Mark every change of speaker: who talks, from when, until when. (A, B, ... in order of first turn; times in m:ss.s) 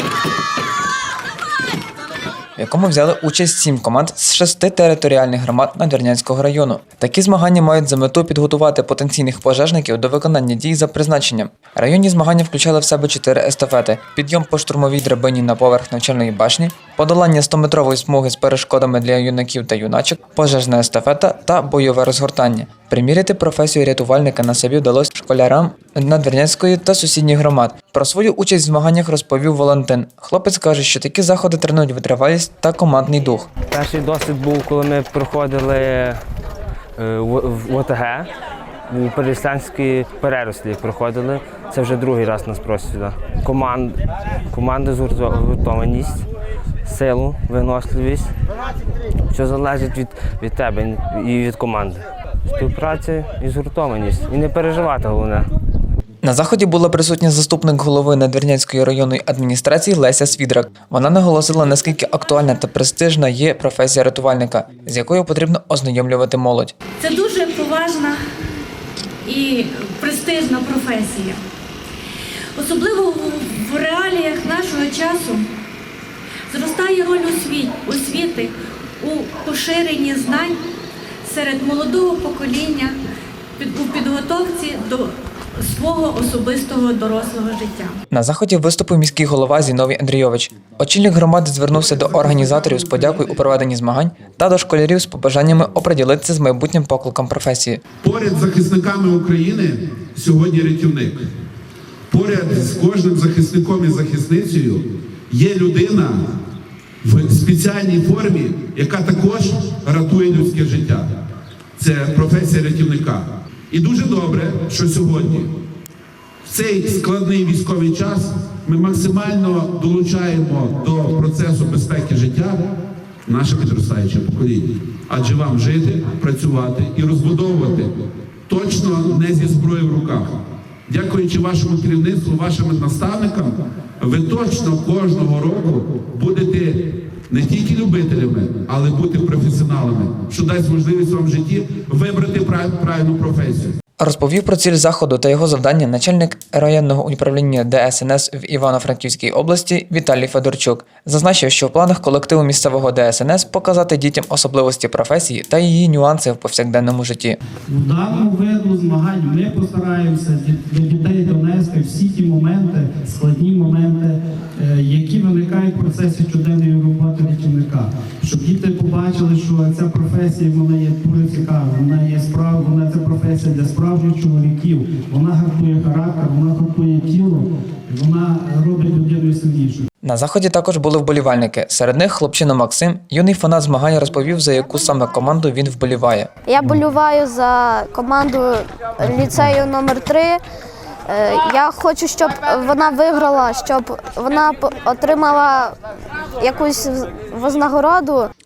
0:02.6-0:33.5 A
0:33.7-0:36.2 B
0:37.0-0:38.3 B
0:38.9-0:46.3 B
0:46.9-0:48.3 B
0:49.3-0:55.5 B
0:56.2-1:06.7 A
1:07.0-1:08.2 C
1:09.2-1:11.4 C
1:12.6-1:15.5 C
1:16.5-1:20.6 C
1:21.2-1:23.0 C
1:23.6-1:28.0 C
1:28.1-1:37.8 A
1:38.0-1:41.3 D
1:42.1-1:46.3 D
1:47.0-1:51.1 D
1:51.8-1:55.6 D
1:56.4-2:02.7 D
2:03.3-2:08.0 D
2:08.5-2:23.8 D
2:24.0-2:37.4 A
2:37.7-2:59.9 E
3:00.0-3:06.3 A
3:06.5-3:10.4 F
3:11.1-3:15.8 F
3:16.4-3:18.3 F